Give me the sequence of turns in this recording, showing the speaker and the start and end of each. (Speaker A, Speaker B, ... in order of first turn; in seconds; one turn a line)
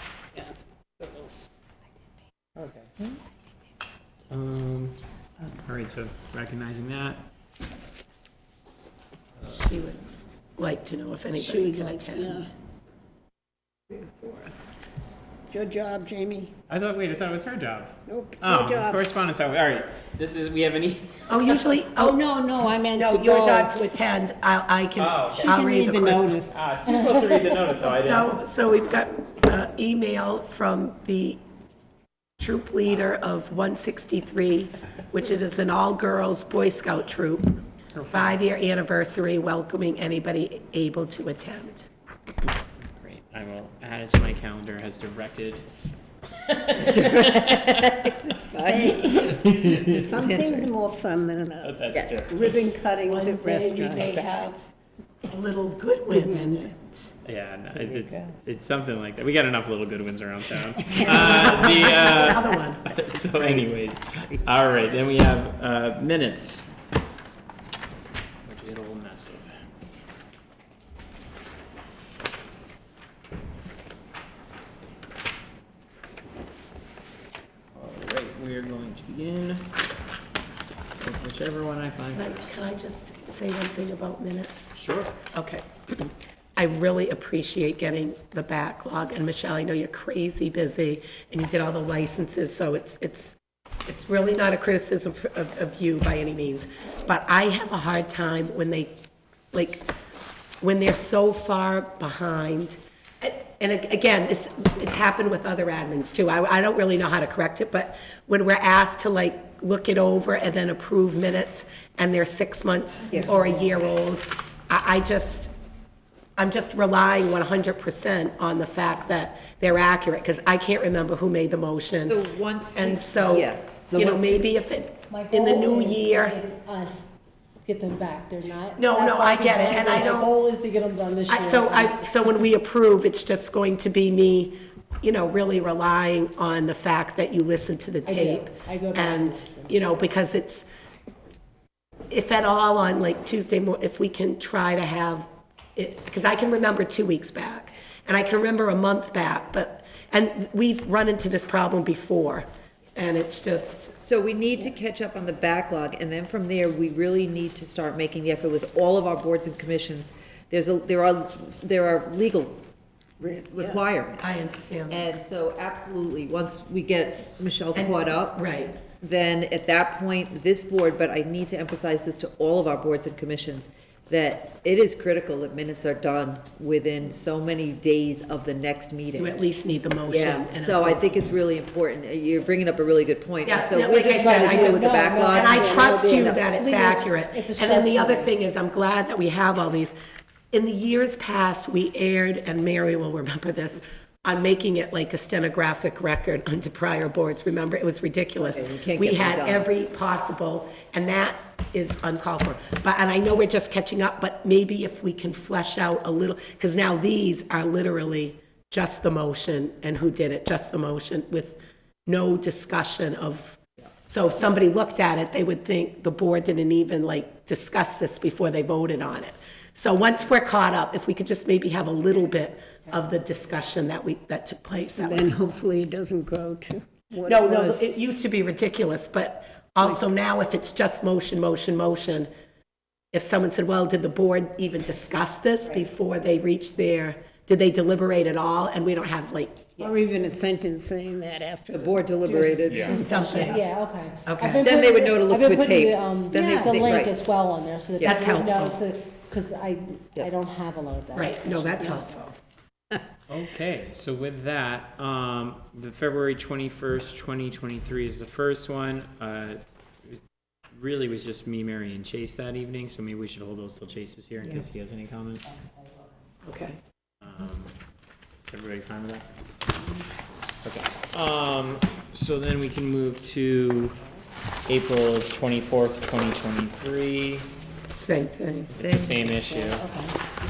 Speaker A: 0.3-1.5
Speaker B: 2.6-2.9
Speaker B: 4.3-5.0
Speaker B: 5.5-7.2
Speaker C: 9.5-10.0
Speaker C: 10.6-12.5
Speaker A: 11.4-12.5
Speaker A: 13.9-14.5
Speaker A: 15.5-16.5
Speaker B: 16.7-21.8
Speaker A: 18.1-19.0
Speaker C: 21.3-22.2
Speaker A: 22.0-23.7
Speaker C: 22.9-26.4
Speaker B: 25.0-25.6
Speaker A: 25.4-26.6
Speaker B: 26.5-28.4
Speaker C: 27.9-31.4
Speaker C: 32.4-37.6
Speaker B: 38.0-38.4
Speaker C: 38.1-41.9
Speaker B: 42.8-45.6
Speaker B: 46.5-48.0
Speaker D: 46.6-50.7
Speaker A: 48.7-51.8
Speaker B: 48.9-50.3
Speaker B: 51.6-52.5
Speaker D: 51.9-52.2
Speaker A: 52.3-54.6
Speaker C: 53.0-54.4
Speaker C: 55.3-56.7
Speaker A: 56.1-57.0
Speaker B: 57.2-66.7
Speaker C: 61.0-62.9
Speaker D: 63.2-64.4
Speaker B: 68.5-69.5
Speaker B: 77.8-79.7
Speaker B: 81.0-82.7
Speaker C: 82.1-84.7
Speaker B: 84.7-85.2
Speaker C: 85.3-93.4
Speaker C: 93.9-99.0
Speaker C: 99.5-99.9
Speaker C: 100.6-115.5
Speaker C: 116.4-122.2
Speaker D: 122.0-124.5
Speaker C: 122.8-126.4
Speaker E: 125.1-127.1
Speaker E: 127.7-132.1
Speaker C: 128.8-130.3
Speaker C: 131.3-140.7
Speaker E: 138.1-139.7
Speaker C: 142.1-153.9
Speaker D: 154.0-162.6
Speaker D: 163.2-168.4
Speaker A: 163.2-163.8
Speaker C: 164.2-165.1
Speaker C: 167.8-168.8
Speaker D: 169.0-179.4
Speaker C: 179.2-181.2
Speaker D: 180.1-186.4
Speaker C: 183.5-189.9
Speaker E: 184.1-188.3
Speaker A: 184.4-185.1
Speaker C: 190.5-225.3
Speaker D: 198.3-199.7
Speaker A: 225.0-227.9
Speaker C: 227.2-232.3
Speaker C: 233.1-239.9
Speaker A: 239.8-243.6
Speaker D: 241.7-243.2
Speaker B: 242.7-243.0
Speaker C: 242.9-243.7
Speaker E: 243.3-252.0
Speaker C: 244.2-244.7
Speaker D: 244.6-247.2
Speaker A: 246.3-247.2
Speaker C: 248.0-248.8
Speaker C: 251.1-252.4
Speaker B: 253.3-260.2
Speaker B: 260.7-265.4
Speaker C: 266.4-266.8
Speaker B: 267.2-267.7
Speaker B: 268.4-269.3
Speaker B: 270.6-274.0
Speaker B: 274.7-277.5
Speaker C: 277.9-278.7
Speaker B: 278.7-279.9
Speaker D: 278.8-279.3
Speaker E: 279.5-280.1